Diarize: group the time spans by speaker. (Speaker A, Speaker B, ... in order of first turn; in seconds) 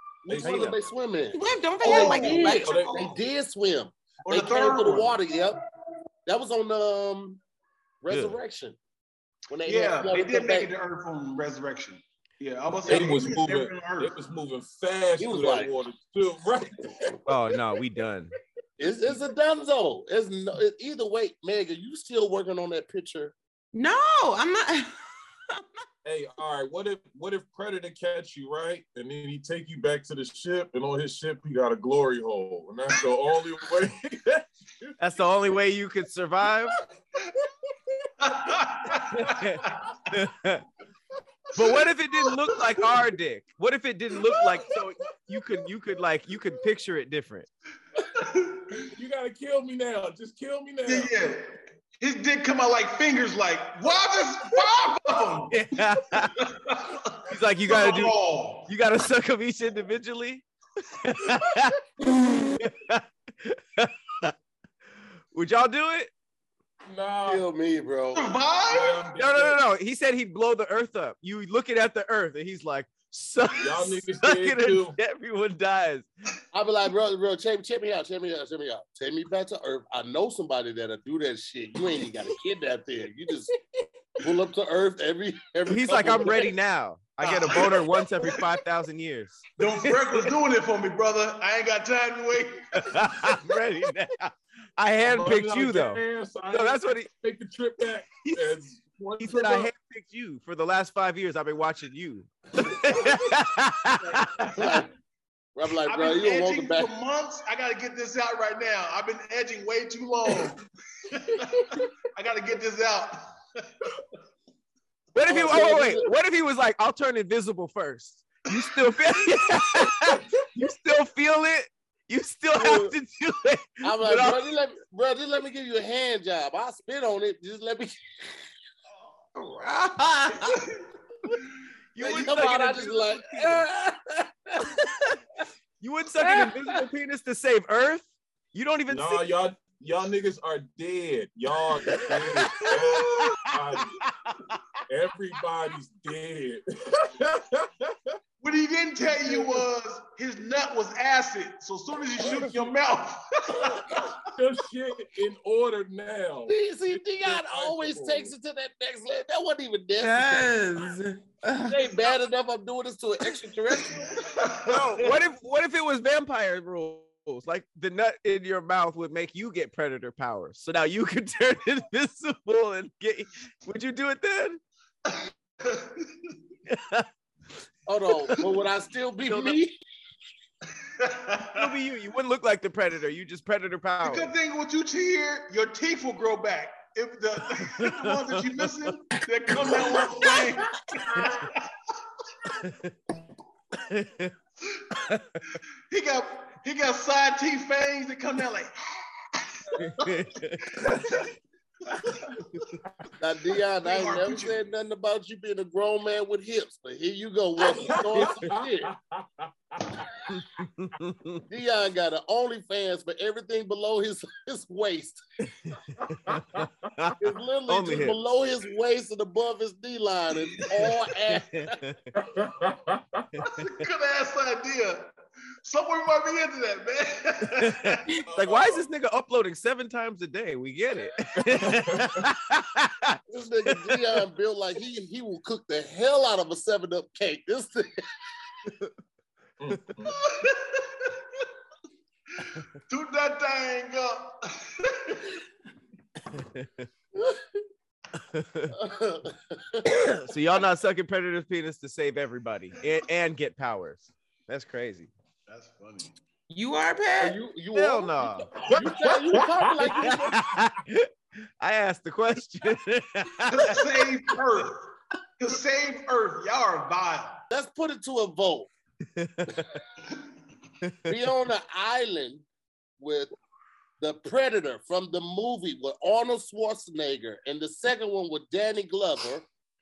Speaker A: 0.2-5.6, 6.2-7.4, 8.0-8.8, 9.5-10.7, 12.9-13.2, 15.2-15.7, 18.8-23.3, 67.2-68.3, 76.5-83.5, 84.2-86.5, 104.5-104.9, 105.5-106.9, 115.2-116.1, 122.5-122.9, 123.8-128.3, 132.0-134.9, 136.2-136.8, 156.5-160.6, 161.6-164.5, 177.9-179.7, 203.2-208.9, 211.5-215.2, 217.2-221.8, 233.3-238.0, 247.2-247.4, 248.7-250.0, 257.2-260.5, 267.5-268.7, 271.0-272.4, 273.0-273.3, 274.0-279.4
Speaker B: 0.3-0.7, 1.9-3.1, 12.8-17.2, 26.0-34.4, 48.8-51.1, 66.9-67.4, 68.7-69.6, 73.6-75.0, 95.0-99.7, 138.9-144.0, 144.9-148.2, 149.2-149.6, 152.2-152.7, 154.3-156.5, 157.2-158.3, 207.6-210.0, 216.0-216.7, 222.2-223.4, 228.3-228.8, 231.4-232.2, 239.6-240.1, 258.7-260.2
Speaker C: 0.4-0.7, 8.1-8.4, 17.2-18.3, 35.0-36.8, 39.1-40.6, 41.5-47.5, 55.5-56.4, 57.3-58.1, 58.7-64.3, 65.3-66.1, 69.2-76.1, 85.7-90.3, 92.7-97.1, 98.2-98.5, 99.2-104.8, 115.1-124.5, 131.9-133.6, 135.8-139.3, 142.0-143.4, 144.0-144.3, 164.6-174.6, 176.7-177.1, 179.3-179.6, 181.5-184.3, 187.6-188.7, 192.6-192.9, 193.8-194.3, 194.9-195.3, 199.8-200.8, 210.3-211.4, 215.6-217.2, 217.7-218.2, 221.3-222.0, 227.5-234.0, 246.3-246.8, 248.2-248.7, 249.9-255.1, 257.7-258.6, 259.9-263.9, 269.1-269.7, 270.8-271.1
Speaker D: 1.3-2.9, 23.7-24.9, 129.3-130.7, 160.0-161.8, 256.5-257.4
Speaker E: 1.8-2.6, 4.3-5.1, 9.6-14.2, 38.2-40.0, 48.0-48.9, 50.9-58.7, 68.1-69.1, 87.2-88.5, 89.6-93.4, 104.1-104.5, 105.8-114.0, 148.4-154.2, 164.2-165.1, 175.1-176.3, 180.8-181.7, 184.0-191.6, 195.9-200.1, 200.8-201.2, 201.9-202.5, 203.8-204.6, 223.4-228.2, 240.0-241.4, 242.4-245.4, 255.5-256.1, 263.5-267.4